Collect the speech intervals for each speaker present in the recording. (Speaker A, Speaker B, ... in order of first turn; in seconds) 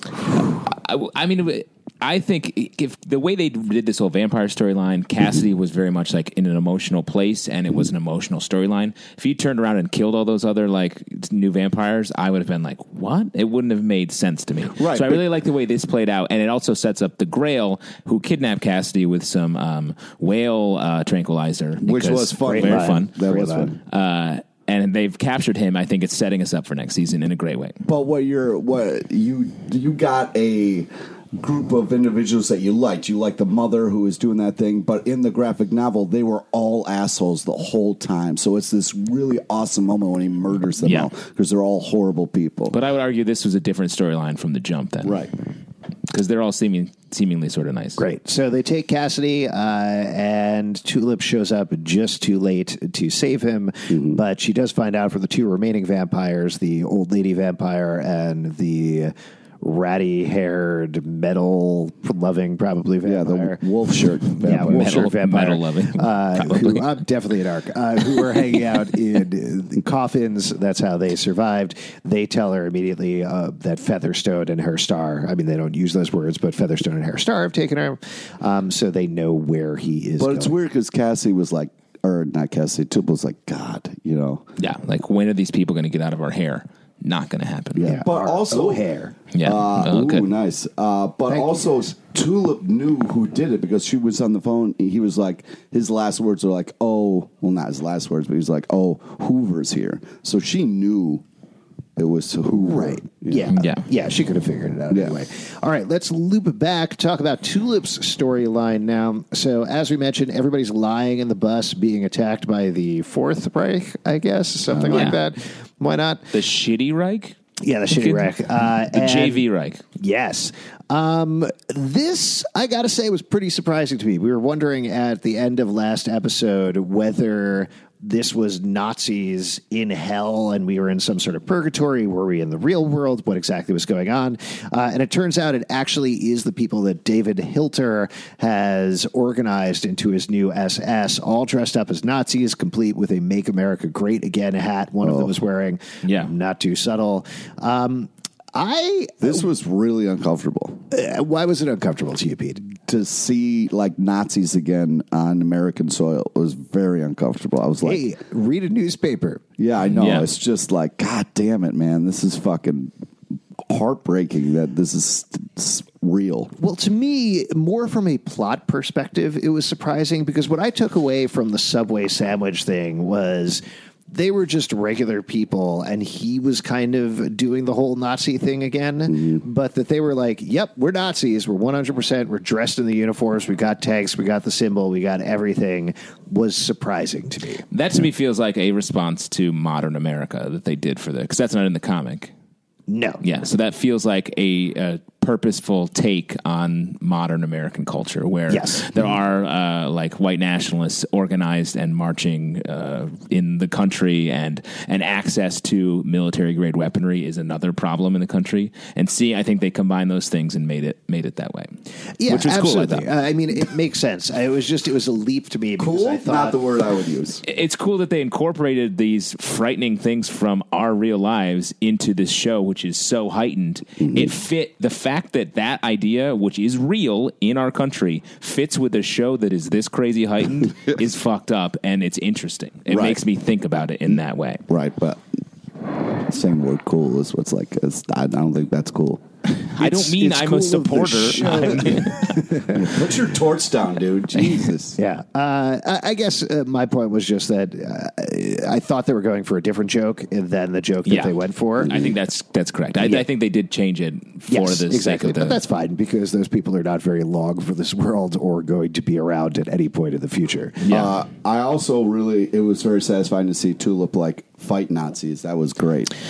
Speaker A: 0.3-23.1, 23.9-27.8, 40.8-41.1, 42.7-45.3, 46.1-48.0, 64.4-66.9, 84.6-87.9, 89.3-90.2, 103.5-103.8, 114.9-115.2, 116.3-117.4, 117.9-119.8, 146.0-146.3, 159.9-160.3, 187.7-192.3, 193.2-211.7, 212.3-213.1, 217.4-234.6, 239.6-242.4, 244.4-244.7, 251.1-255.6, 260.8-261.1
Speaker B: 14.8-15.2, 21.8-23.8, 27.8-42.8, 45.0-45.3, 53.9-54.2, 63.0-65.0, 80.2-84.5, 87.7-88.8, 89.4-101.2, 102.0-103.5, 104.9-105.2, 114.7-115.1, 149.2-150.8, 152.9-158.0, 159.6-162.9, 163.7-166.5, 179.1-179.4, 215.8-217.4, 224.0-224.3, 232.9-233.2, 234.7-235.2, 236.1-239.2, 239.8-245.0, 260.9-266.1
Speaker C: 22.4-23.7, 48.0-63.6, 64.3-80.5, 87.8-89.1, 91.3-91.6, 102.5-116.3, 117.6-119.4, 120.0-149.4, 150.9-152.7, 157.8-159.4, 166.6-187.6, 192.9-193.2, 198.5-198.9, 212.2-216.6, 241.3-242.9, 245.0-251.9, 253.0-253.2, 254.5-260.9